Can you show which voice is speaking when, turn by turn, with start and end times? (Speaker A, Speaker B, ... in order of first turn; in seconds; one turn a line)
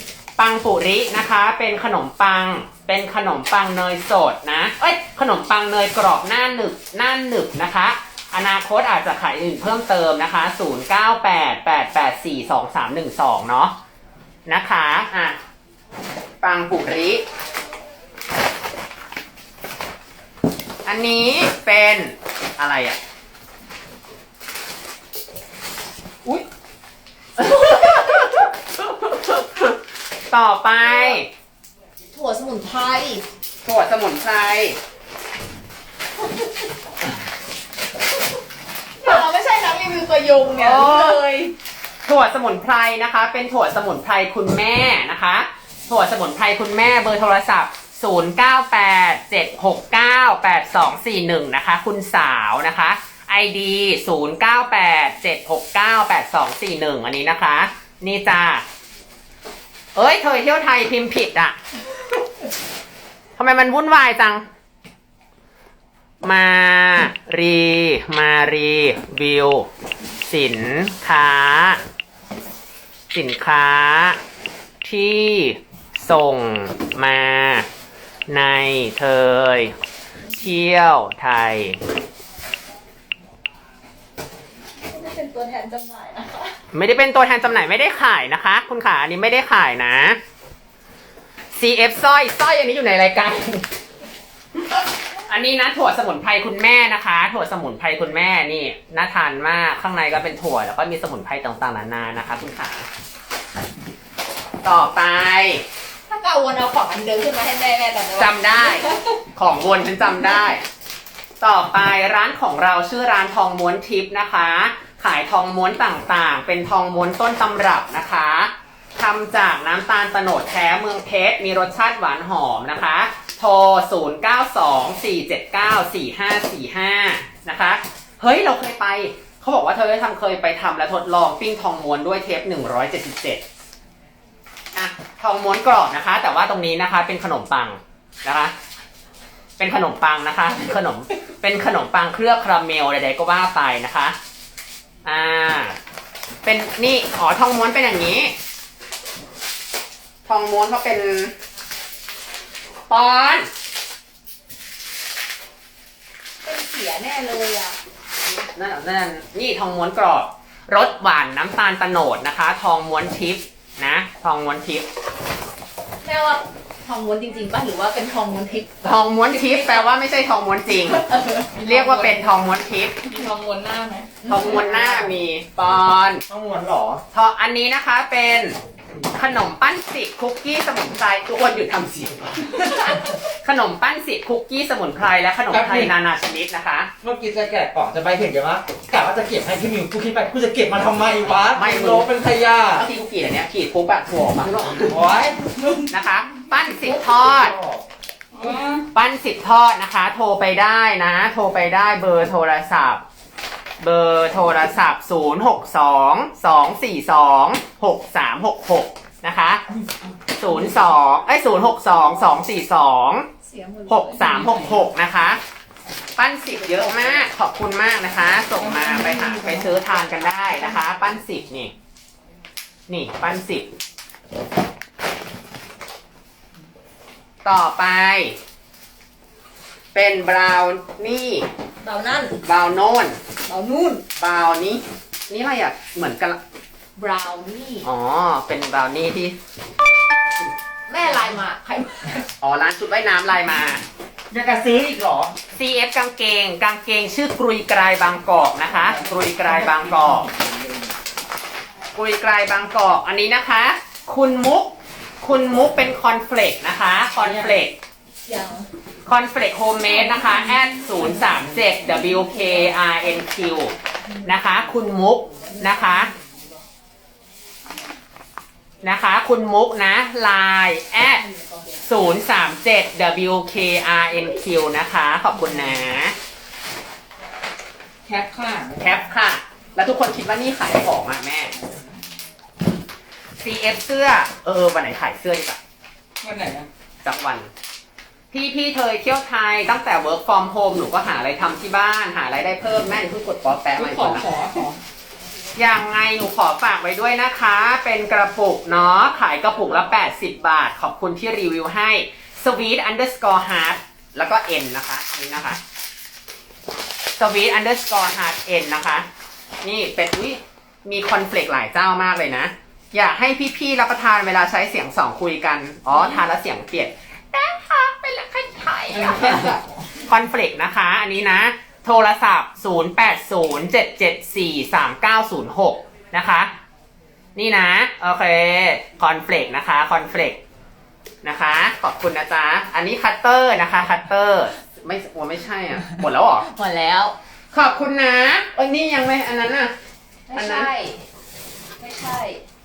Speaker A: 0.4-13.7
Speaker A: 14.5-15.4
Speaker A: 16.4-17.2
Speaker A: 20.9-23.0
Speaker A: 27.4-28.5
Speaker B: 27.7-27.9
Speaker A: 29.1-29.6
Speaker A: 30.3-31.3
Speaker B: 32.1-33.2
Speaker A: 33.6-34.8
Speaker B: 39.0-41.5
Speaker A: 40.5-41.2
Speaker A: 42.0-58.6
Speaker A: 59.9-61.6
Speaker A: 63.4-64.4
Speaker A: 66.2-69.7
Speaker A: 70.3-71.8
Speaker A: 73.1-74.2
Speaker A: 74.8-77.7
Speaker A: 78.3-79.7
Speaker A: 80.4-81.8
Speaker B: 84.9-86.5
Speaker A: 86.7-90.2
Speaker A: 91.5-93.7
Speaker A: 95.1-102.9
Speaker A: 104.6-105.6
Speaker B: 106.1-109.0
Speaker A: 108.2-110.6
Speaker A: 111.4-133.4
Speaker A: 134.7-138.5
Speaker A: 139.6-144.2
Speaker A: 145.0-145.8
Speaker A: 146.4-148.3
Speaker A: 150.2-151.3
Speaker A: 152.9-153.5
Speaker B: 156.4-157.8
Speaker A: 158.3-164.9
Speaker B: 166.0-169.8
Speaker A: 168.8-171.1
Speaker B: 170.9-172.2
Speaker A: 171.6-173.0
Speaker B: 173.0-175.1
Speaker A: 174.2-176.2
Speaker C: 176.3-177.0
Speaker A: 177.1-178.6
Speaker A: 179.1-186.9
Speaker C: 185.5-185.9
Speaker C: 187.0-192.8
Speaker A: 191.5-192.1
Speaker A: 192.7-194.9
Speaker C: 194.8-195.7
Speaker A: 195.9-197.5
Speaker C: 196.9-197.8
Speaker C: 198.4-198.7
Speaker A: 198.9-203.0
Speaker A: 203.8-209.6
Speaker A: 210.3-213.3
Speaker B: 213.4-214.7
Speaker A: 213.9-215.4
Speaker A: 216.2-221.7
Speaker B: 216.7-217.2
Speaker B: 218.6-219.8
Speaker A: 222.9-223.7
Speaker A: 227.4-228.3
Speaker A: 229.9-231.5
Speaker B: 231.8-232.4
Speaker A: 232.4-233.2
Speaker B: 233.5-234.0
Speaker A: 234.2-236.4
Speaker B: 237.0-237.8
Speaker A: 237.8-239.4
Speaker B: 240.9-242.2
Speaker A: 242.4-243.8
Speaker C: 244.3-245.3
Speaker A: 245.5-250.3
Speaker A: 251.9-257.8
Speaker B: 257.2-257.6
Speaker B: 258.2-258.7
Speaker A: 259.1-263.7
Speaker A: 264.2-266.1
Speaker A: 268.8-271.2
Speaker B: 271.2-271.8
Speaker A: 271.8-276.1
Speaker C: 278.1-279.0
Speaker A: 278.8-281.5
Speaker A: 283.4-285.6
Speaker C: 286.2-286.7
Speaker A: 287.0-287.5
Speaker A: 288.3-294.3
Speaker C: 293.8-294.8
Speaker A: 295.6-305.6
Speaker A: 307.2-309.1
Speaker A: 309.6-326.5
Speaker C: 319.0-319.6
Speaker A: 327.4-330.4
Speaker A: 331.2-336.5
Speaker B: 336.4-337.1
Speaker A: 337.5-339.7
Speaker B: 340.3-341.0
Speaker A: 340.3-340.7
Speaker B: 341.8-342.4